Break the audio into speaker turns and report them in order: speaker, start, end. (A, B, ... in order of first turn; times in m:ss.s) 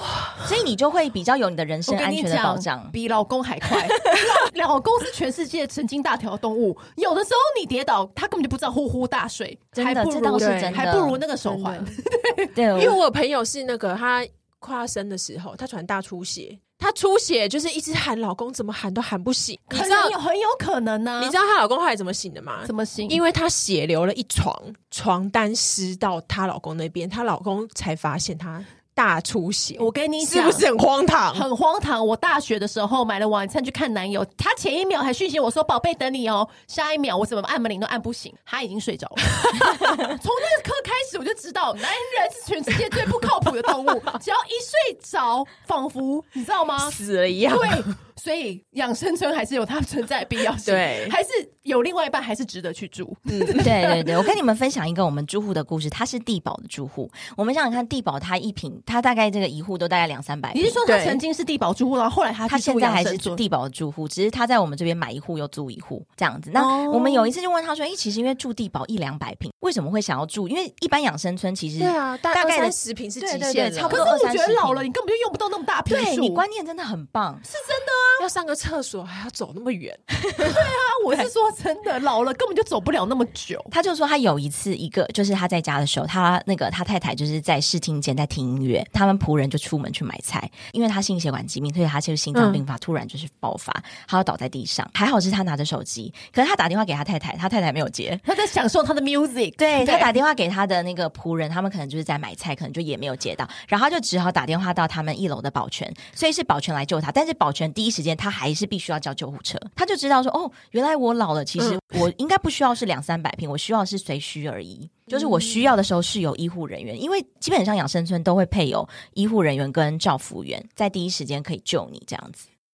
0:00.4-0:02.9 A
0:01.8-0:12.5 B
0:09.7-0:11.2 A
0:10.3-0:10.9 C
0:11.4-0:12.0 C
0:12.5-0:13.0 A
0:12.7-0:20.2 C
0:19.7-0:21.4 B
0:21.2-0:31.5 C
0:22.6-0:23.2 B
0:29.8-0:30.6 B
0:31.3-0:54.2 B
0:46.8-0:47.9 C
0:50.6-0:51.1 C
0:53.3-0:53.6 C
0:53.6-1:00.8 A
1:00.5-1:03.4 B
1:00.9-1:01.2 C
1:02.5-1:14.8 A
1:06.5-1:07.3 B
1:11.8-1:14.1 C
1:13.9-1:16.4 B
1:15.9-1:17.4 A
1:17.5-1:18.2 B
1:18.2-1:20.6 C
1:20.4-1:23.7 B
1:23.7-1:38.2 A
1:32.3-1:32.6 C
1:38.2-1:40.1 B
1:39.6-2:02.4 A
1:51.6-1:52.0 C